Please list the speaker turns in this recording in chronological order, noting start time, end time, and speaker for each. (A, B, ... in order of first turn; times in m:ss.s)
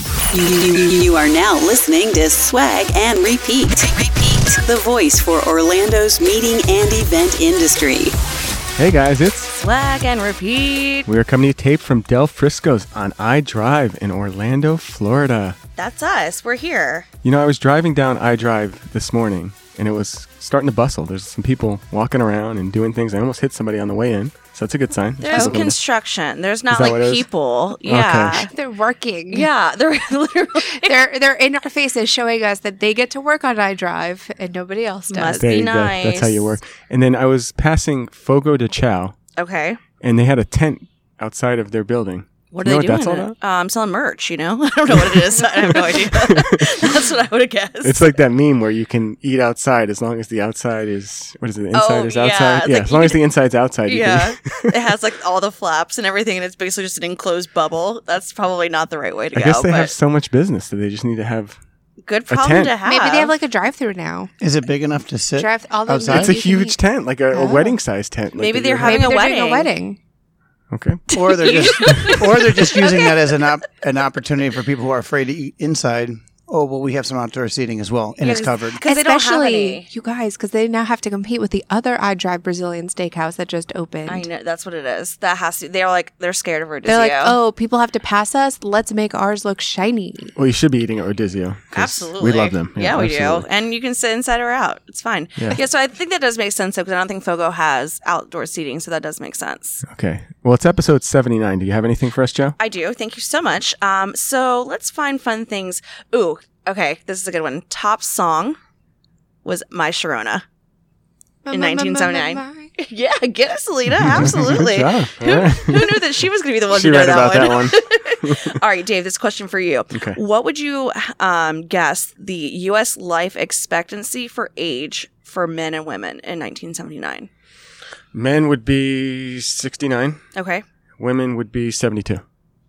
0:00.3-0:08.2 A
0:08.8-0:09.5 B
0:09.6-0:11.1 C
0:11.1-0:15.6 B
0:15.8-0:17.1 C
0:17.2-0:25.8 B
0:25.2-0:28.5 C
0:26.7-0:27.3 B
0:27.9-0:28.4 B
0:28.5-0:29.5 D
0:29.3-0:31.0 C
0:30.6-0:35.4 D
0:35.1-0:36.5 C
0:35.4-0:39.2 B
0:39.4-0:39.8 C
0:40.0-0:43.3 B
0:42.5-0:48.0 C
0:45.8-0:46.7 B
0:47.8-0:54.8 B
0:51.7-0:53.2 C
0:53.9-1:00.0 C
0:59.3-1:01.6 B
1:02.0-1:03.3 C
1:02.3-1:02.7 B
1:02.8-1:04.3 D
1:04.4-1:06.3 E
1:05.4-1:06.8 D
1:06.1-1:09.1 B
1:07.3-1:07.8 D
1:08.4-1:09.7 C
1:08.8-1:10.0 D
1:10.7-1:11.0 B
1:11.1-1:13.3 C
1:11.1-1:18.8 E
1:18.2-1:19.9 C
1:18.9-1:24.3 D
1:24.1-1:27.4 C
1:26.9-1:30.4 D
1:30.4-1:33.5 B
1:31.7-1:39.8 C
1:39.9-1:42.6 B
1:42.6-1:48.6 C
1:49.4-1:50.4 C
1:51.4-1:52.8 D
1:51.5-2:07.3 C
1:53.9-1:56.0 B
1:56.7-1:58.5 B
2:08.1-2:10.2 B
2:10.4-2:10.6 C
2:11.0-2:12.2 B